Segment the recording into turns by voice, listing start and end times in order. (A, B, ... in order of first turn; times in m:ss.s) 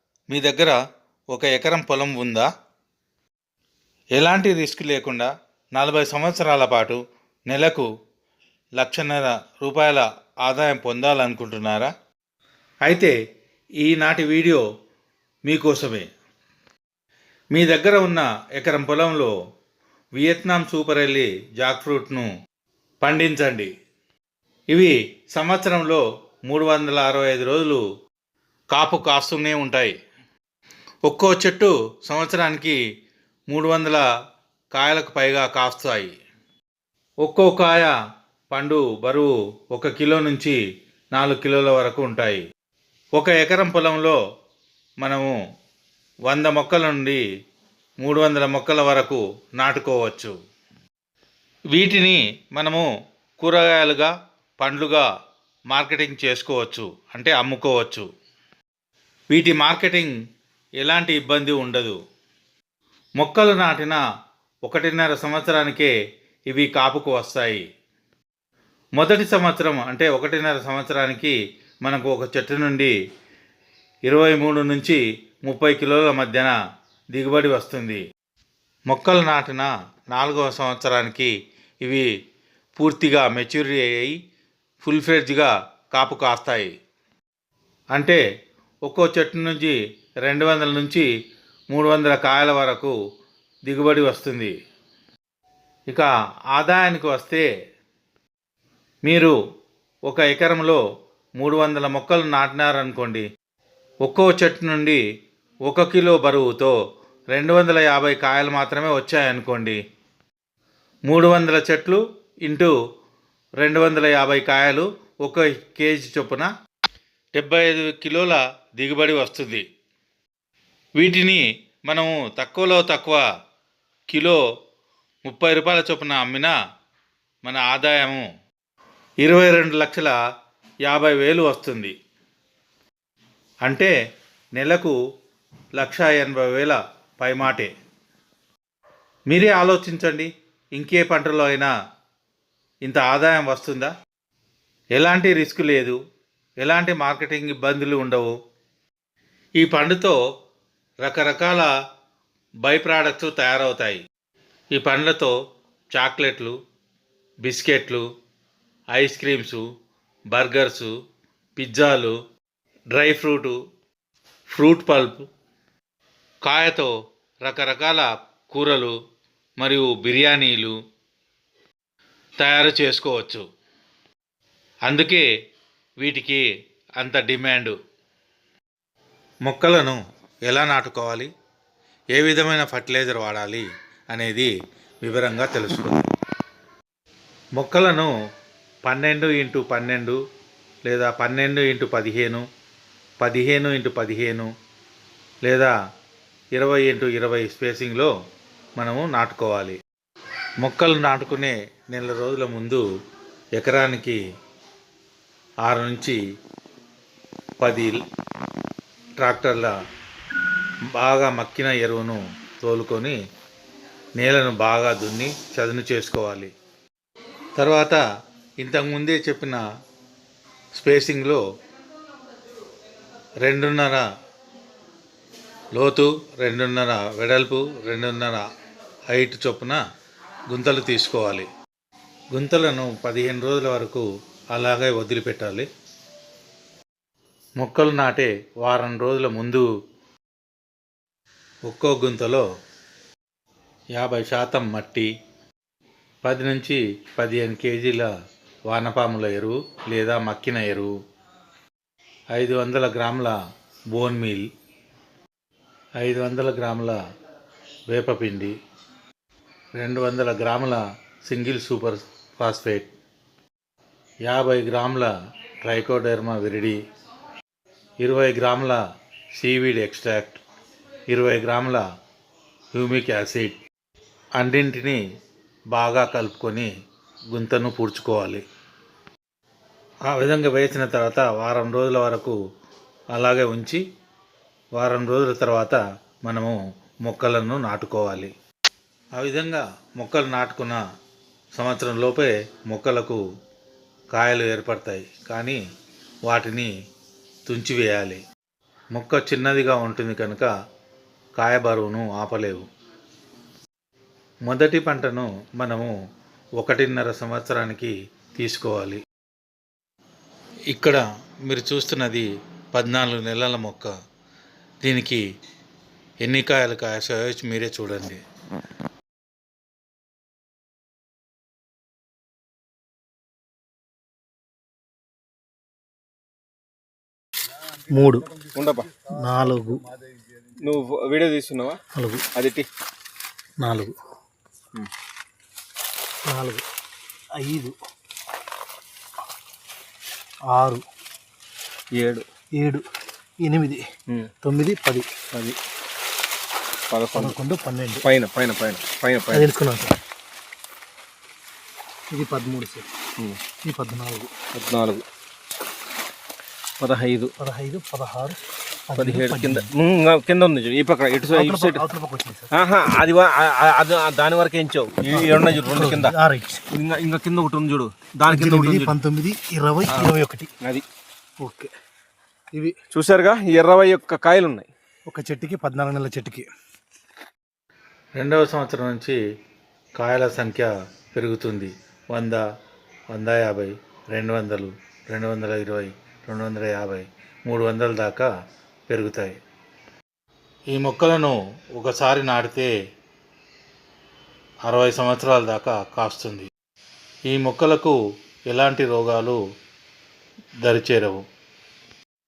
0:00.3-0:00.8 A
0:01.3-0:02.5 A
0:04.2-0:07.9 A
0:08.8-0:11.9 A
0:12.9-0:13.2 A
0:13.8-0:14.6 A
0:15.5-0:16.1 A
0:17.6-0:19.3 A
0:20.2-0:22.3 A
0:23.0-0:23.7 A
0:24.7-0:27.8 A
0:28.7-0:30.0 A
0:31.1-0:32.8 A
0:33.5-0:34.0 A
0:34.7-0:36.2 A
0:37.2-0:37.9 A
0:38.5-0:40.6 A
0:41.2-0:42.4 A
0:43.2-0:44.2 A
0:45.0-0:45.3 A
0:46.3-0:47.2 A
0:48.0-0:50.4 A
0:51.7-0:52.9 A
0:53.4-0:55.1 A
0:55.7-0:58.1 A
0:59.3-1:00.1 A
1:00.8-1:02.0 A
1:03.2-1:04.0 A
1:04.7-1:05.9 A
1:06.5-1:07.6 A
1:09.0-1:12.9 A
1:14.1-1:16.5 A
1:17.2-1:18.0 A
1:18.9-1:21.3 A
1:22.8-1:24.1 A
1:24.8-1:26.7 A
1:27.9-1:28.2 A
1:28.9-1:31.1 A
1:31.7-1:33.0 A
1:33.7-1:34.5 A
1:35.9-1:37.4 A
1:39.1-1:39.3 A
1:40.1-1:40.8 A
1:41.4-1:43.2 A
1:44.0-1:45.0 A
1:45.7-1:46.8 A
1:47.3-1:49.8 A
1:51.1-1:52.7 A
1:53.6-1:56.5 A
1:57.4-1:59.6 A
2:01.0-2:03.2 A
2:04.1-2:04.4 A
2:05.2-2:06.5 A
2:07.4-2:08.3 A
2:09.2-2:10.2 A
2:10.8-2:11.9 A
2:13.6-2:13.9 A
2:14.6-2:15.0 A
2:15.8-2:17.7 A
2:19.3-2:21.7 A
2:22.8-2:23.9 A
2:25.0-2:26.0 A
2:26.6-2:28.3 A
2:29.6-2:30.2 A
2:31.0-2:31.7 A
2:32.7-2:34.0 A
2:34.7-2:35.3 A
2:36.0-2:36.6 A
2:37.4-2:38.0 A
2:38.9-2:39.6 A
2:40.3-2:40.9 A
2:41.6-2:42.2 A
2:42.9-2:43.6 A
2:44.5-2:45.2 A
2:46.4-2:46.9 A
2:47.5-2:49.0 A
2:49.6-2:50.8 A
2:52.4-2:53.4 A
2:54.9-2:55.2 A
2:56.0-2:56.4 A
2:57.0-2:57.7 A
2:59.5-3:01.3 A
3:02.2-3:04.5 A
3:05.0-3:06.1 A
3:07.6-3:08.1 A
3:08.9-3:10.2 A
3:10.9-3:12.4 A
3:13.2-3:14.5 A
3:15.4-3:15.7 A
3:16.6-3:18.1 A
3:18.8-3:19.8 A
3:20.6-3:22.8 A
3:23.6-3:24.2 A
3:25.6-3:26.2 A
3:27.6-3:28.0 A
3:29.2-3:29.7 A
3:31.0-3:33.2 A
3:34.2-3:36.5 A
3:37.6-3:38.0 A
3:38.6-3:39.6 A
3:40.8-3:41.4 A
3:43.4-3:44.0 A
3:45.7-3:48.4 A
3:49.1-3:49.8 A
3:50.5-3:51.5 A
3:52.3-3:55.7 A
3:57.6-3:59.6 A
4:01.7-4:02.4 A
4:04.0-4:05.1 A
4:06.2-4:08.1 A
4:08.7-4:10.9 A
4:12.3-4:13.4 A
4:13.9-4:14.5 A
4:16.0-4:17.0 A
4:17.9-4:18.5 A
4:19.8-4:22.9 A
4:24.3-4:25.1 A
4:25.6-4:26.8 A
4:28.0-4:28.8 A
4:29.4-4:30.4 A
4:31.1-4:31.8 A
4:32.8-4:33.6 A
4:34.4-4:35.0 A
4:35.7-4:36.7 A
4:37.3-4:38.4 A
4:40.1-4:42.4 A
4:43.1-4:43.8 A
4:44.8-4:48.3 A
4:49.2-4:50.8 A
4:51.6-4:53.2 A
4:54.1-4:55.6 A
4:56.3-4:56.7 A
4:57.5-4:58.2 A
4:58.9-5:00.5 A
5:01.4-5:02.7 A
5:04.5-5:05.9 A
5:06.6-5:09.0 A
5:10.7-5:13.9 A
5:14.8-5:15.2 A
5:16.2-5:18.2 A
5:27.9-5:28.4 B
5:28.4-5:29.0 C
5:29.1-5:29.9 B
5:30.6-5:31.8 C
5:32.0-5:32.2 B
5:32.4-5:32.7 C
5:33.6-5:34.0 B
5:36.3-5:36.6 B
5:37.4-5:37.8 B
5:40.5-5:40.8 B
5:42.0-5:42.3 C
5:42.6-5:42.8 B
5:43.4-5:43.8 B
5:44.4-5:45.1 B
5:46.9-5:47.4 C
5:47.2-5:48.0 B
5:48.0-5:49.5 C
5:49.3-5:50.0 B
5:52.1-5:52.9 B
5:53.6-5:54.3 B
5:54.5-5:55.0 C
5:56.8-5:57.3 C
5:57.4-5:58.4 B
5:58.9-5:59.7 B
5:59.0-6:01.8 C
6:01.3-6:02.5 B
6:02.5-6:06.2 C
6:05.1-6:06.6 B
6:06.7-6:09.0 C
6:08.3-6:10.5 B
6:09.9-6:10.8 C
6:11.4-6:11.7 B
6:12.9-6:14.7 C
6:15.1-6:16.5 B
6:18.2-6:19.2 A
6:20.0-6:22.4 A
6:23.1-6:28.3 A
6:28.9-6:29.4 A
6:30.7-6:32.7 A
6:34.7-6:36.5 A
6:37.3-6:38.0 A
6:38.5-6:39.4 A
6:40.6-6:41.2 A